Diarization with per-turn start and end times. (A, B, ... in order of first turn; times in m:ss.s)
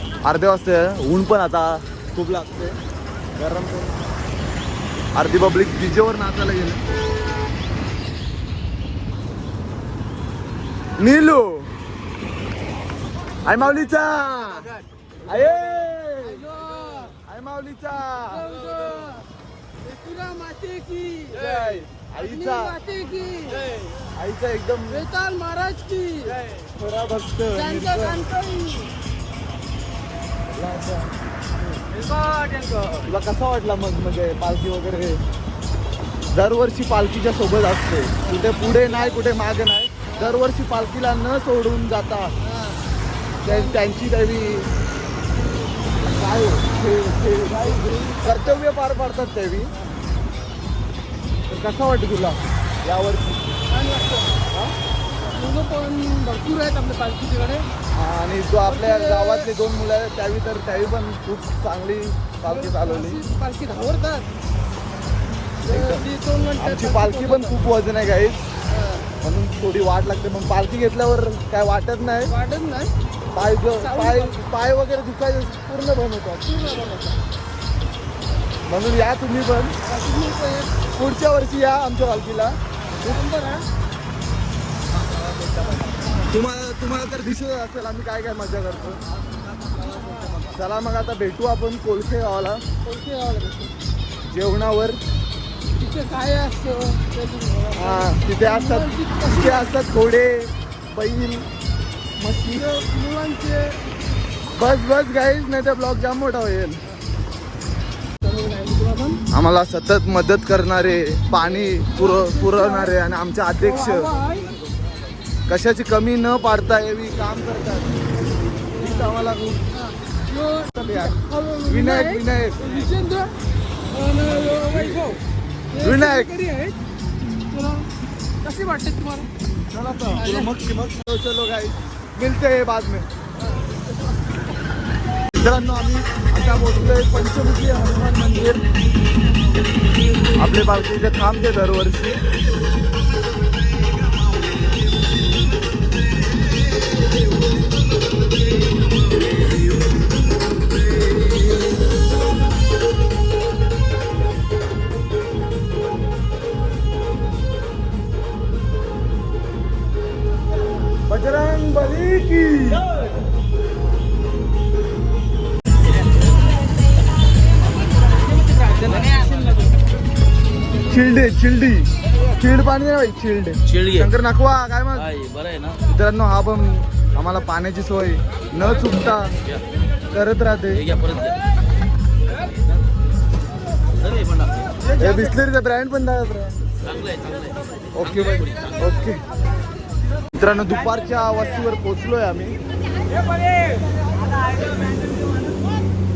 0:00.2-0:02.8 A
0:03.4-0:04.0 A
0:05.2-0:06.8 A
0:11.0-0:11.7 A
0:13.4-0:14.7 A
0:15.3-0:16.5 A
0:16.5-0:17.1 B
0:17.2-0:18.5 A
0:18.5-0:19.2 B
0:19.8-0:21.3 B
0:21.3-0:22.8 A
0:22.4-0:23.6 B
0:23.5-0:23.9 C
0:24.2-0:25.1 A
0:24.9-0:26.3 B
0:26.7-0:28.3 A
0:27.6-0:28.9 B
0:30.6-0:31.1 A
0:31.9-0:33.1 C
0:33.1-0:35.2 A
0:36.3-0:42.3 A
0:43.4-0:44.7 A
0:46.0-0:49.7 A
0:51.5-0:53.4 A
0:53.7-0:54.3 B
0:55.4-0:57.7 B
0:57.9-1:03.2 A
0:58.8-0:59.4 B
1:02.5-1:04.3 B
1:05.6-1:08.4 A
1:05.8-1:07.5 B
1:09.2-1:12.3 A
1:12.3-1:12.9 B
1:13.3-1:16.7 A
1:13.9-1:14.2 B
1:16.6-1:17.2 B
1:18.7-1:19.8 A
1:19.9-1:20.7 B
1:21.0-1:22.6 A
1:23.0-1:23.6 B
1:26.3-1:29.0 A
1:29.8-1:30.4 C
1:30.5-1:32.6 A
1:32.9-1:33.7 B
1:34.3-1:35.0 A
1:35.8-1:39.6 B
1:37.7-1:41.5 A
1:42.2-1:42.7 A
1:42.6-1:43.8 B
1:44.5-1:46.8 A
1:48.3-1:49.2 B
1:49.3-1:54.1 A
1:52.2-1:52.7 B
1:53.6-1:54.5 B
1:55.5-1:58.0 A
1:58.8-1:59.6 A
2:00.3-2:03.3 B
2:00.7-2:02.7 A
2:04.0-2:05.2 B
2:04.3-2:05.1 A
2:05.8-2:06.4 A
2:05.8-2:06.7 B
2:07.5-2:07.9 B
2:08.4-2:09.3 B
2:09.7-2:13.1 A
2:15.3-2:18.6 A
2:20.4-2:22.2 A
2:31.1-2:31.4 A
2:41.1-2:42.8 A
2:48.7-2:49.5 C
2:50.9-2:55.1 A
2:53.7-2:54.1 C
2:55.0-2:55.8 C
2:55.9-2:59.3 A
3:00.1-3:00.9 A
3:00.8-3:01.4 C
3:04.0-3:04.5 C
3:05.0-3:06.6 A
3:06.9-3:07.5 C
3:07.9-3:09.2 A
3:08.4-3:08.7 C
3:10.3-3:12.6 A
3:14.4-3:15.1 C